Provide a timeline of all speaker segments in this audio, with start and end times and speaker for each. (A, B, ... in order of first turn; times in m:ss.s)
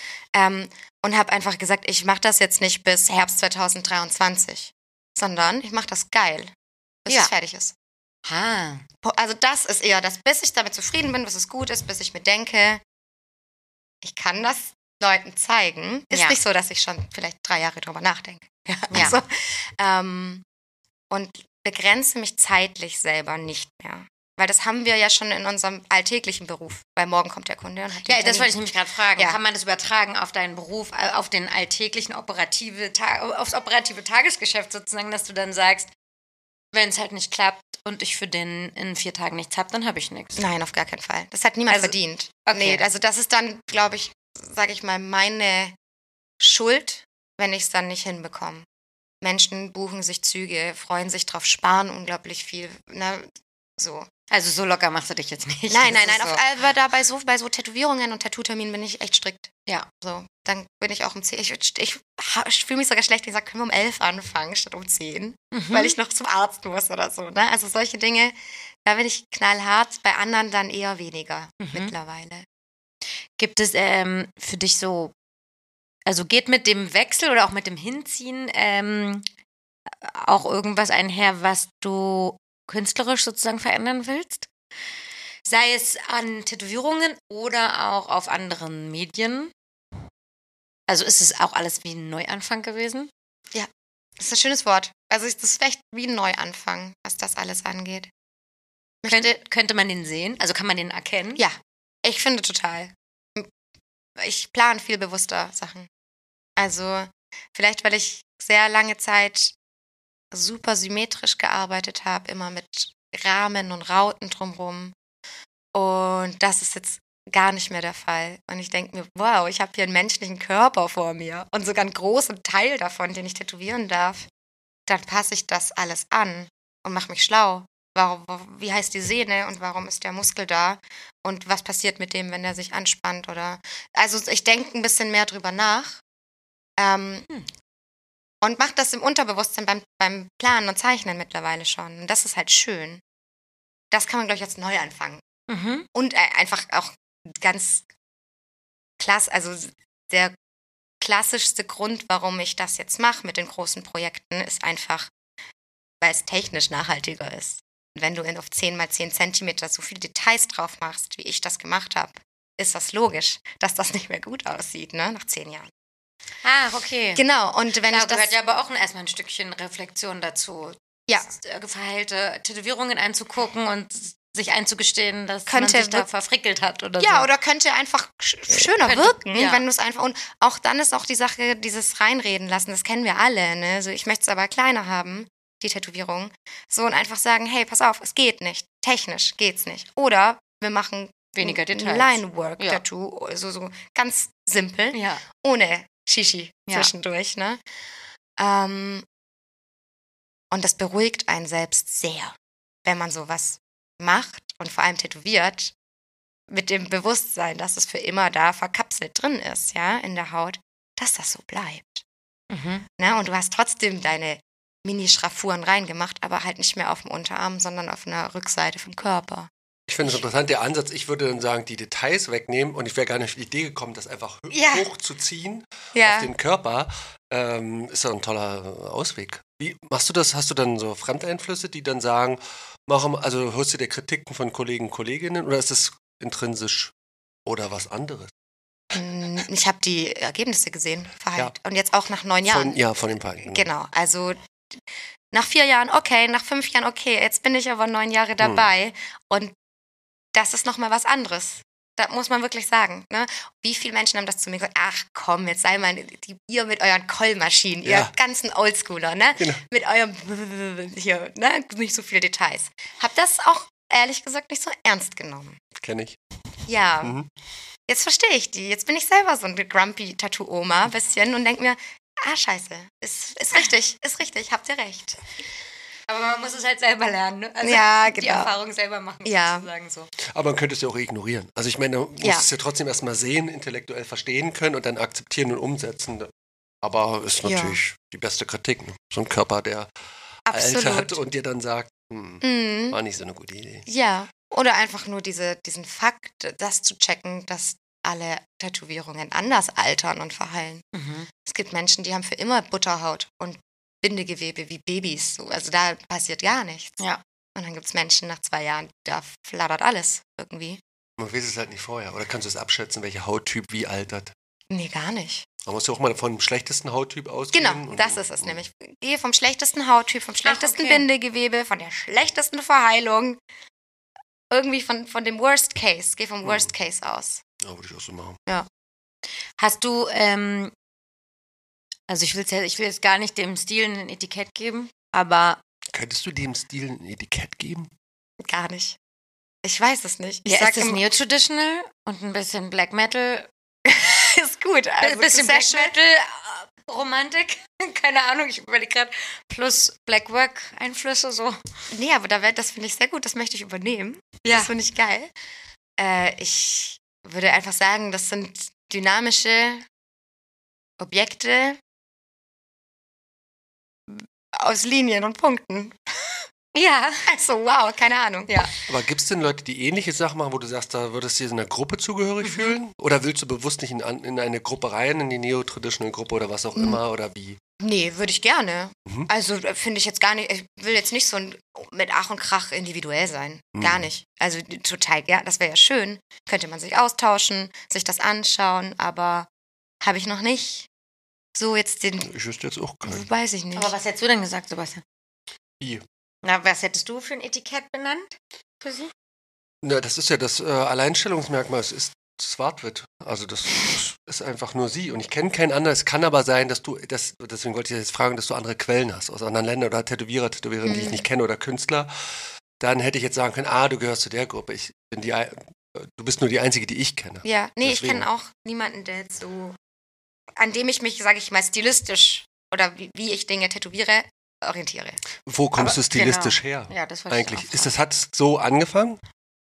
0:00.3-0:06.5 A
0:07.0-0:07.7 A
0:08.2-0:08.8 B
0:09.0-0:12.8 A
0:14.0-0:20.4 A
0:16.1-0:16.4 B
0:18.9-0:19.2 B
0:21.1-0:28.5 A
0:28.0-0:35.9 B
0:36.7-0:40.4 B
0:40.4-0:45.7 A
0:41.7-0:42.8 B
0:46.4-0:48.6 A
0:49.2-0:54.1 A
0:54.3-0:56.5 B
0:55.7-1:12.4 A
1:05.5-1:06.0 B
1:11.6-1:11.9 B
1:13.4-1:15.1 B
1:16.0-1:19.2 B
1:20.0-1:24.5 B
1:25.4-1:29.5 B
1:30.9-1:33.1 B
1:33.5-1:38.1 A
1:39.0-1:39.3 A
1:39.1-1:41.4 B
1:41.4-1:43.5 A
1:44.2-1:45.9 A
1:46.6-1:49.5 A
1:50.3-1:54.9 A
1:55.7-2:04.3 A
2:04.9-2:16.0 A
2:16.8-2:17.3 A
2:18.4-2:23.0 A
2:23.9-2:25.2 A
2:25.5-2:25.8 B
2:25.9-2:27.8 A
2:29.0-2:30.3 A
2:31.0-2:35.1 A
2:36.0-2:45.7 A
2:46.4-2:47.2 B
2:47.2-2:48.3 A
2:47.9-2:57.3 B
2:55.5-2:56.1 A
2:57.0-3:17.6 A
2:58.5-2:59.6 B
3:11.4-3:12.8 B
3:14.9-3:15.2 B
3:18.4-3:19.0 A
3:20.5-3:25.7 A
3:26.5-3:32.0 A
3:32.5-3:32.8 B
3:33.0-3:39.5 A
3:39.9-3:56.9 C
3:44.5-3:44.9 B
3:45.9-3:46.3 A
3:57.4-3:58.3 C
3:58.9-4:02.8 A
4:02.5-4:03.7 C
4:03.4-4:04.4 A
4:05.3-4:09.5 A
4:08.4-4:08.6 C
4:10.3-4:25.6 A
4:17.8-4:18.1 C
4:19.4-4:19.6 C
4:25.8-4:26.2 C
4:26.6-4:27.1 A
4:27.0-4:27.3 C
4:27.9-4:35.2 A
4:36.1-4:40.1 B
4:37.6-4:38.5 A
4:39.2-4:39.7 A
4:40.3-4:46.3 C
4:42.2-4:42.4 A
4:46.8-4:49.9 C
4:47.4-4:47.8 A
4:50.4-4:51.2 A
4:50.5-4:53.9 C
4:52.4-4:53.0 A
4:53.8-5:00.8 A
5:00.9-5:01.3 B
5:01.4-5:07.0 A
5:07.5-5:10.8 A
5:11.2-5:14.3 C
5:14.7-5:15.4 A
5:15.6-5:18.6 C
5:17.5-5:23.4 A
5:20.4-5:21.0 B
5:24.5-5:27.4 A
5:26.4-5:26.7 C
5:27.6-5:28.4 C
5:29.6-5:30.7 B
5:32.1-5:35.6 B
5:35.9-5:37.9 C
5:38.4-5:39.0 A
5:39.6-5:41.0 A
5:40.4-5:43.5 B
5:43.8-5:45.9 A
5:45.0-5:51.6 B
5:51.9-5:55.3 A
5:54.4-5:54.7 B
5:56.0-5:59.8 A
6:01.0-6:01.8 A
6:04.1-6:06.4 A
6:06.7-6:07.2 B
6:07.3-6:08.6 A
6:08.9-6:17.6 C
6:12.4-6:12.8 B
6:17.8-6:29.5 A
6:23.7-6:24.1 C
6:30.0-6:30.9 A
6:31.5-6:32.3 A
6:32.2-6:33.3 C
6:33.0-6:33.9 A
6:33.7-6:35.0 B
6:35.8-6:36.0 C
6:36.4-6:39.1 B
6:39.8-6:52.1 C
6:50.8-6:51.2 A
6:52.8-6:58.2 C
6:57.4-6:59.8 A
7:00.6-7:05.2 A
7:05.4-7:09.2 C
7:05.8-7:07.9 B